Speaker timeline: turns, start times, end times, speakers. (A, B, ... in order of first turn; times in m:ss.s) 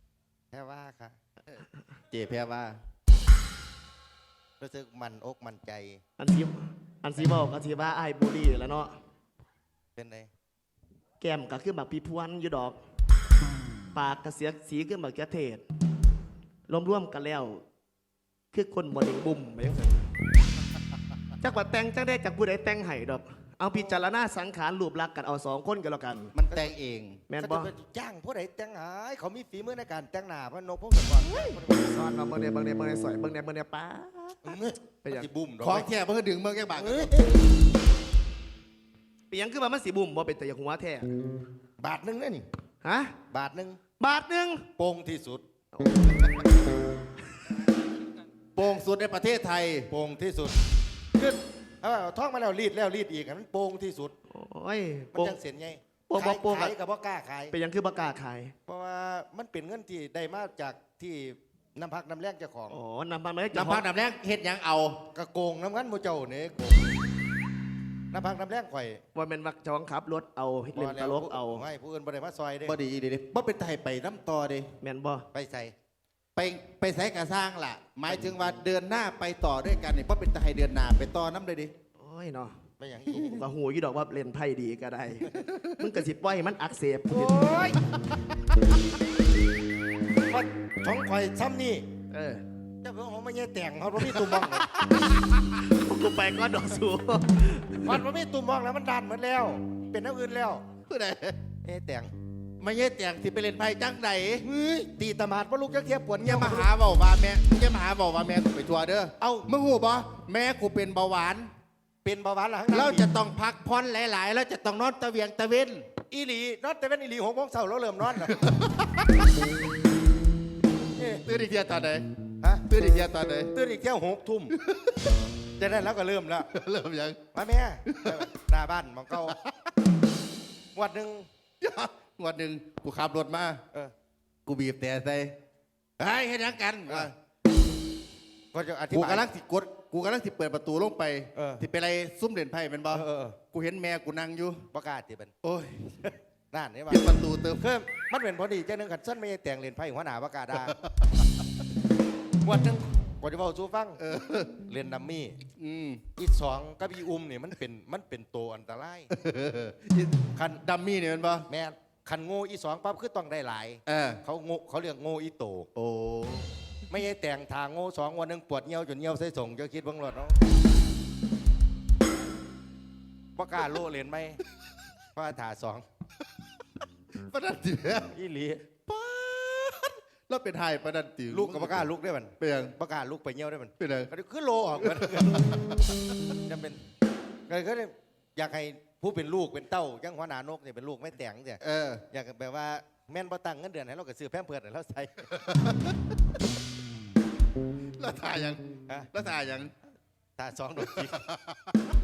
0:00.5-0:01.2 A
0:02.1-0:02.8 B
0:04.6-0:06.0 A
0:06.2-0:09.0 C
0:10.0-0:10.3 A
0:11.2-0:12.8 C
0:13.9-0:15.6 C
0:16.7-0:17.6 C
0:18.5-0:20.1 C
0:21.4-0:26.3 C
0:23.7-0:24.0 A
0:26.4-0:27.2 B
0:26.5-0:26.7 A
0:27.3-0:27.7 C
0:27.4-0:32.2 A
0:31.2-0:35.3 C
0:34.4-0:35.9 A
0:35.6-0:37.1 B
0:36.7-0:37.4 A
0:39.3-0:41.1 C
0:41.8-0:42.4 A
0:42.8-0:43.1 C
0:43.3-0:43.8 A
0:44.0-0:44.7 C
0:44.8-0:45.4 A
0:45.7-0:46.4 C
0:48.6-0:49.9 B
0:49.9-0:50.6 A
0:51.1-0:54.1 A
0:54.3-0:55.4 C
0:55.1-0:57.5 A
0:56.1-0:56.7 C
0:57.5-0:58.5 C
0:58.7-1:02.8 A
1:02.7-1:03.8 C
1:03.5-1:05.0 B
1:05.1-1:06.9 A
1:08.1-1:09.0 A
1:09.1-1:11.6 C
1:10.7-1:12.7 A
1:12.6-1:14.7 B
1:14.8-1:15.2 C
1:15.3-1:15.7 A
1:16.4-1:21.7 B
1:22.0-1:22.6 C
1:22.8-1:23.4 A
1:23.2-1:27.4 C
1:27.1-1:27.8 A
1:30.3-1:31.8 A
1:32.1-1:32.4 C
1:32.8-1:34.7 A
1:35.5-1:38.0 C
1:37.8-1:40.6 A
1:40.9-1:41.4 B
1:41.6-1:42.1 A
1:42.6-1:44.4 B
1:44.4-1:46.7 A
1:46.2-1:51.5 B
1:49.2-1:49.5 A
1:52.0-1:53.1 A
1:52.7-1:55.9 B
1:56.1-1:58.4 A
1:58.2-1:59.2 B
2:01.0-2:01.2 A
2:01.2-2:02.0 B
2:02.6-2:03.5 B
2:03.5-2:04.6 A
2:04.6-2:05.1 B
2:05.6-2:06.5 A
2:06.5-2:07.2 B
2:07.3-2:09.4 A
2:07.9-2:08.2 B
2:09.2-2:09.7 B
2:10.7-2:11.3 A
2:11.6-2:13.6 B
2:14.4-2:15.4 B
2:16.0-2:17.1 B
2:18.5-2:19.3 A
2:18.9-2:24.6 B
2:21.3-2:21.6 A
2:22.9-2:23.4 A
2:24.7-2:25.3 A
2:25.4-2:26.1 B
2:26.0-2:30.8 A
2:26.9-2:27.6 B
2:30.5-2:31.3 B
2:32.4-2:34.0 A
2:34.0-2:34.6 B
2:34.7-2:35.4 A
2:35.5-2:36.0 B
2:36.2-2:39.1 A
2:39.1-2:41.5 B
2:40.3-2:40.6 A
2:41.5-2:45.7 A
2:43.9-2:44.2 B
2:45.7-2:46.5 B
2:46.9-2:50.4 A
2:53.4-2:54.4 A
2:55.2-2:55.8 A
2:57.2-2:58.1 B
2:58.1-2:58.6 A
2:58.9-3:01.8 B
3:01.3-3:05.5 A
3:02.4-3:02.7 B
3:03.8-3:04.1 B
3:05.4-3:06.0 B
3:06.5-3:06.8 A
3:07.5-3:15.4 A
3:11.6-3:12.0 B
3:15.4-3:15.9 B
3:18.0-3:19.7 B
3:20.4-3:21.2 A
3:21.0-3:21.9 B